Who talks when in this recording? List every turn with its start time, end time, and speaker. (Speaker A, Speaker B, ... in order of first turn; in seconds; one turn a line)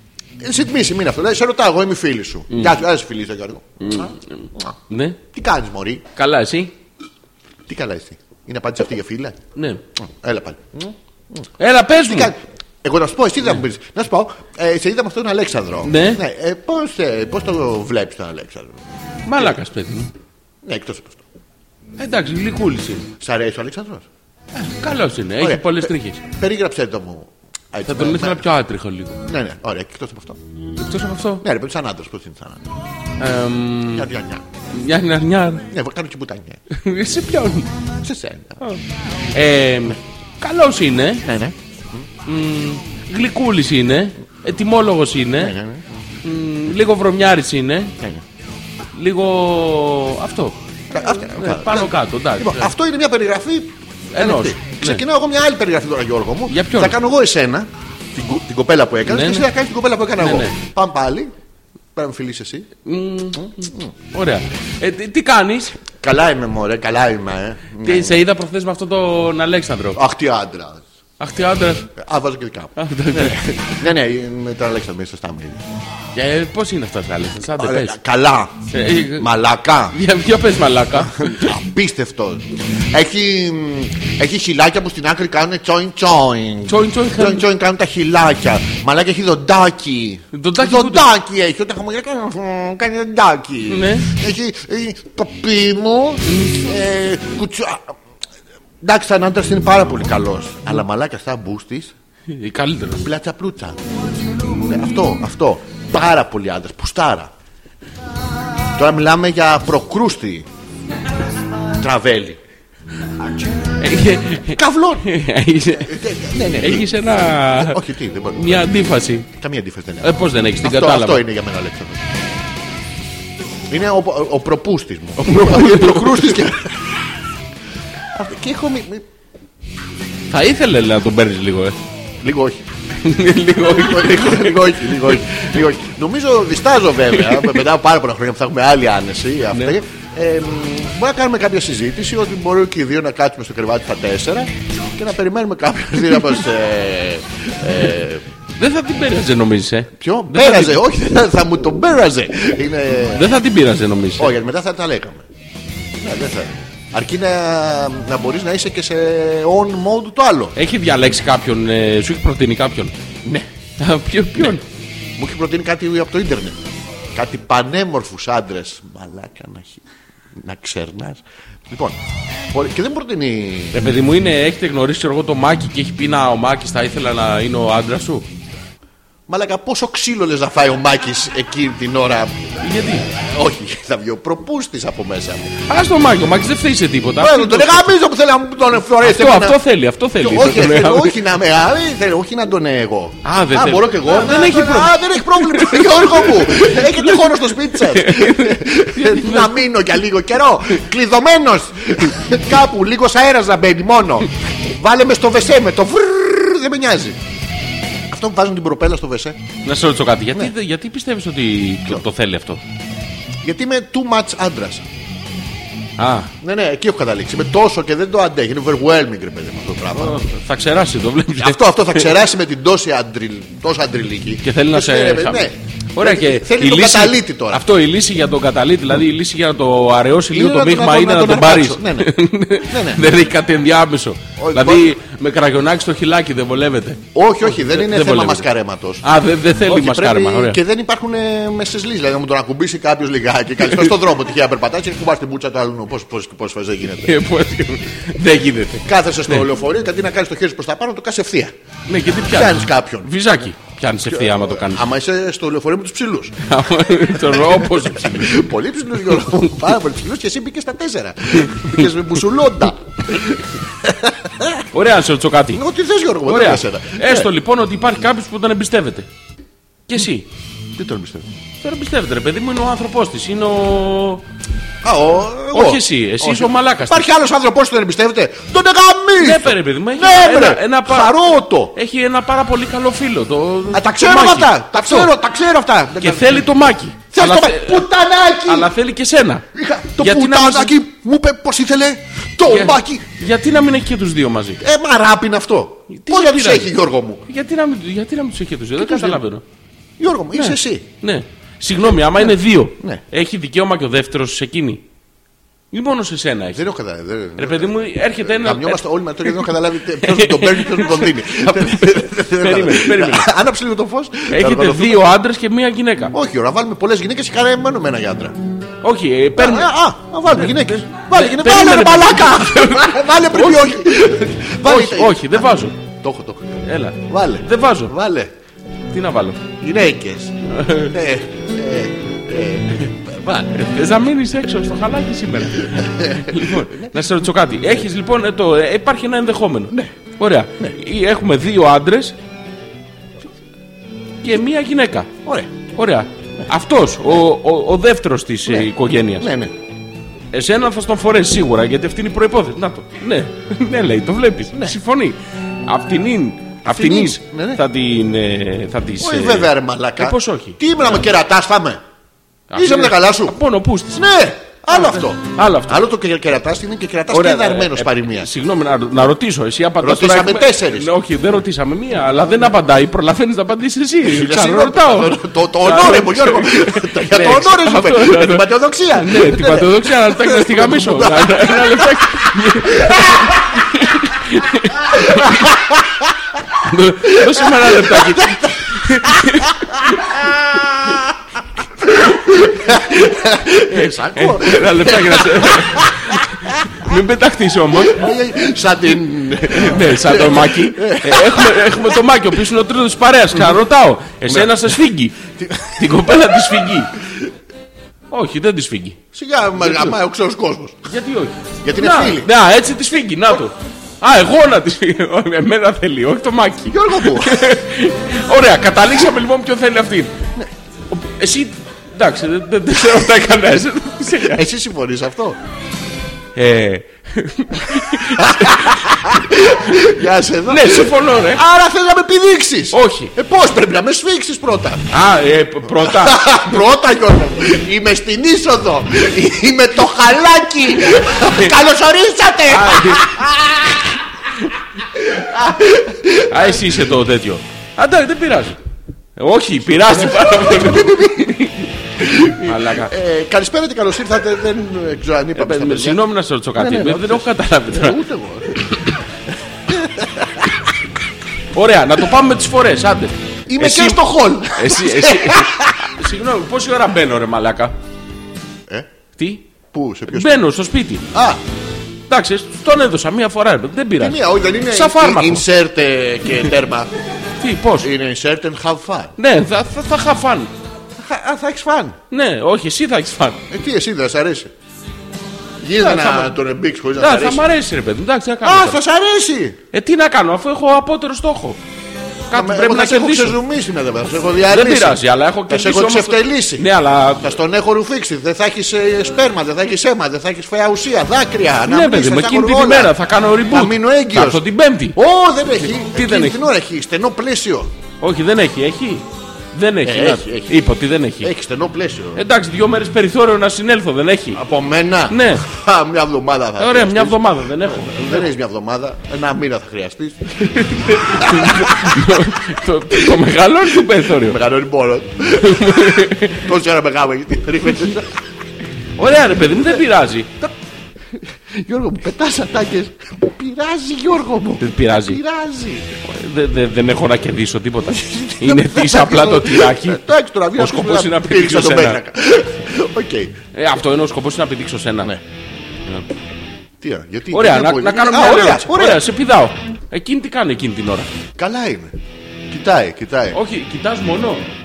Speaker A: 0.4-4.7
Speaker B: 2.5-2.7
Speaker B: 3.8-5.2
Speaker A: 5.3-6.0
Speaker B: 6.1-6.7
Speaker A: 7.7-9.4
Speaker B: 9.5-9.8
Speaker A: 10.0-18.8
Speaker B: 11.6-12.3
Speaker B: 15.8-16.2
Speaker B: 19.2-20.1
Speaker A: 20.6-21.2
Speaker B: 22.0-23.1
Speaker A: 23.2-24.1
Speaker B: 24.6-26.2
Speaker A: 25.4-28.4
Speaker B: 27.9-29.2
Speaker A: 29.2-30.4
Speaker B: 30.8-31.4
Speaker A: 31.4-32.7
Speaker B: 33.2-34.1
Speaker A: 33.9-34.5
Speaker B: 34.7-35.7
Speaker A: 35.7-36.6
Speaker B: 36.7-37.7
Speaker A: 38.0-38.6
Speaker B: 39.3-41.2
Speaker A: 41.2-42.1
Speaker B: 42.2-45.5
Speaker A: 45.4-45.9
Speaker B: 46.2-48.0
Speaker B: 48.9-50.6
Speaker A: 50.9-61.3
Speaker B: 51.1-52.7
Speaker B: 54.1-55.0
Speaker B: 56.5-57.0
Speaker B: 59.0-59.5
Speaker B: 60.2-60.6
Speaker A: 61.9-62.7
Speaker B: 62.8-65.8
Speaker A: 63.3-63.9
Speaker A: 65.9-68.2
Speaker B: 67.8-70.0
Speaker A: 69.9-70.8
Speaker B: 71.2-71.9
Speaker A: 71.9-75.6
Speaker B: 72.8-73.8
Speaker B: 76.1-78.0
Speaker A: 77.5-80.0
Speaker B: 78.7-79.3
Speaker B: 79.9-81.5
Speaker A: 81.0-97.9
Speaker B: 86.7-87.5
Speaker B: 90.3-91.1
Speaker B: 93.7-94.1
Speaker B: 96.2-96.6
Speaker A: 98.8-101.9
Speaker B: 102.3-103.0
Speaker A: 103.0-103.8
Speaker A: 104.5-107.3
Speaker A: 108.7-110.5
Speaker A: 111.8-112.4
Speaker B: 113.8-116.0
Speaker A: 114.4-115.1
Speaker A: 115.8-122.1
Speaker B: 116.6-117.8
Speaker B: 118.3-119.3
Speaker B: 120.0-121.2
Speaker A: 123.7-127.0
Speaker B: 125.2-126.4
Speaker A: 128.1-129.0
Speaker B: 130.3-131.8
Speaker A: 132.2-132.6
Speaker B: 133.0-135.5
Speaker A: 133.7-148.2
Speaker B: 137.2-137.6
Speaker B: 148.6-150.8
Speaker A: 150.0-153.3
Speaker B: 153.1-154.3
Speaker A: 154.2-155.2
Speaker A: 156.0-160.6
Speaker B: 160.6-162.9
Speaker B: 163.8-164.6
Speaker A: 165.2-166.6
Speaker A: 167.1-169.8
Speaker A: 170.3-172.0
Speaker A: 172.5-173.8
Speaker B: 173.7-178.3
Speaker A: 179.3-182.4
Speaker B: 182.6-183.0
Speaker A: 183.0-185.5
Speaker B: 185.7-187.9
Speaker A: 187.1-189.6
Speaker B: 189.0-191.2
Speaker A: 190.2-207.2
Speaker B: 193.2-199.6
Speaker A: 208.1-209.4
Speaker B: 209.6-212.6
Speaker A: 213.4-214.8
Speaker B: 216.0-216.3
Speaker A: 216.4-220.2
Speaker B: 219.9-222.1
Speaker A: 221.4-227.7
Speaker B: 224.4-238.5
Speaker A: 230.3-233.1
Speaker A: 234.4-234.9
Speaker A: 237.1-239.1
Speaker B: 239.0-240.6
Speaker A: 239.6-247.2
Speaker B: 247.0-249.4
Speaker A: 248.8-251.5
Speaker B: 251.9-254.9
Speaker A: 252.2-253.3
Speaker A: 254.1-256.5
Speaker B: 256.4-258.4
Speaker A: 257.1-264.6
Speaker B: 261.4-261.8
Speaker B: 264.7-265.6
Speaker A: 265.5-267.3
Speaker B: 266.2-269.1
Speaker B: 269.9-270.3
Speaker A: 270.7-271.3
Speaker B: 271.6-274.2
Speaker A: 274.8-281.8
Speaker B: 275.5-277.1
Speaker B: 279.2-281.1
Speaker B: 281.7-285.1
Speaker A: 283.7-286.5
Speaker B: 286.0-287.9
Speaker A: 287.1-288.7
Speaker B: 288.4-289.4
Speaker A: 289.5-293.1
Speaker B: 290.0-290.8
Speaker B: 292.4-294.6
Speaker A: 294.6-297.2
Speaker B: 295.9-296.7
Speaker B: 297.2-299.4
Speaker A: 298.8-299.2
Speaker A: 300.0-300.9
Speaker B: 300.3-304.8
Speaker A: 302.1-303.0
Speaker B: 305.7-306.6
Speaker A: 306.5-315.1
Speaker B: 307.4-313.3
Speaker B: 314.3-316.1
Speaker A: 316.1-318.4
Speaker B: 318.8-319.7
Speaker A: 319.4-328.3
Speaker B: 320.4-325.8
Speaker B: 326.6-327.9
Speaker B: 328.9-329.4
Speaker A: 329.6-333.6
Speaker B: 330.5-330.9
Speaker B: 333.5-342.2
Speaker A: 335.5-337.1
Speaker B: 344.2-345.1
Speaker A: 345.2-345.6
Speaker B: 345.7-349.3
Speaker A: 348.4-349.5
Speaker B: 350.3-360.6
Speaker A: 354.5-354.8
Speaker A: 356.6-357.6
Speaker A: 359.0-361.8
Speaker B: 362.5-364.0
Speaker A: 362.5-363.4
Speaker A: 363.9-368.3
Speaker B: 364.7-365.8
Speaker B: 367.1-385.5
Speaker A: 369.8-370.9
Speaker A: 374.0-383.7
Speaker A: 384.8-386.1
Speaker B: 386.6-390.1
Speaker A: 387.2-396.9
Speaker B: 392.7-398.1
Speaker A: 397.8-402.0
Speaker B: 399.5-406.9
Speaker A: 404.3-404.7
Speaker A: 405.4-407.2
Speaker B: 408.1-409.0
Speaker A: 409.1-410.8
Speaker B: 409.6-409.9
Speaker B: 410.9-420.1
Speaker A: 411.6-412.3
Speaker A: 416.7-417.5
Speaker B: 420.9-424.4
Speaker A: 424.1-425.4
Speaker B: 426.3-428.9
Speaker A: 428.0-434.9
Speaker B: 430.4-431.4
Speaker B: 432.7-433.1
Speaker B: 434.9-436.6
Speaker A: 435.6-444.0
Speaker B: 441.1-441.5
Speaker B: 442.5-443.1
Speaker A: 444.9-446.9
Speaker B: 446.3-448.6
Speaker B: 449.2-452.9
Speaker A: 449.8-451.3
Speaker A: 452.0-456.0
Speaker B: 455.4-458.0
Speaker A: 456.5-458.8
Speaker A: 459.7-460.7
Speaker B: 461.5-464.0
Speaker A: 463.5-465.9
Speaker B: 464.5-467.8
Speaker B: 469.2-469.4
Speaker A: 469.7-470.4
Speaker B: 470.1-471.0
Speaker A: 471.1-471.4
Speaker B: 472.1-475.4
Speaker A: 474.0-476.9
Speaker B: 477.4-477.9
Speaker A: 477.8-479.1
Speaker B: 479.2-480.5
Speaker A: 481.0-482.0
Speaker B: 482.1-483.4
Speaker A: 483.5-484.5
Speaker A: 485.6-487.4
Speaker B: 485.8-486.3
Speaker B: 486.9-488.8
Speaker A: 488.4-489.6
Speaker B: 489.7-491.6
Speaker B: 492.3-493.4
Speaker A: 492.3-496.7
Speaker B: 494.5-497.4
Speaker A: 497.2-507.7
Speaker B: 501.6-505.0
Speaker B: 505.8-506.4
Speaker B: 508.0-511.3
Speaker A: 509.8-510.6
Speaker A: 511.2-512.2
Speaker B: 512.1-514.4
Speaker A: 514.3-523.2
Speaker B: 515.1-515.4
Speaker B: 516.6-518.3
Speaker B: 520.3-524.4
Speaker A: 523.7-528.2
Speaker B: 525.4-526.5
Speaker B: 529.0-530.3
Speaker A: 531.1-535.9
Speaker B: 534.6-535.2
Speaker B: 536.0-540.0
Speaker A: 537.9-543.4
Speaker B: 540.5-542.0
Speaker B: 543.5-545.1
Speaker A: 546.8-549.0
Speaker B: 547.3-551.1
Speaker A: 551.4-551.9
Speaker A: 552.5-553.4
Speaker B: 553.3-554.5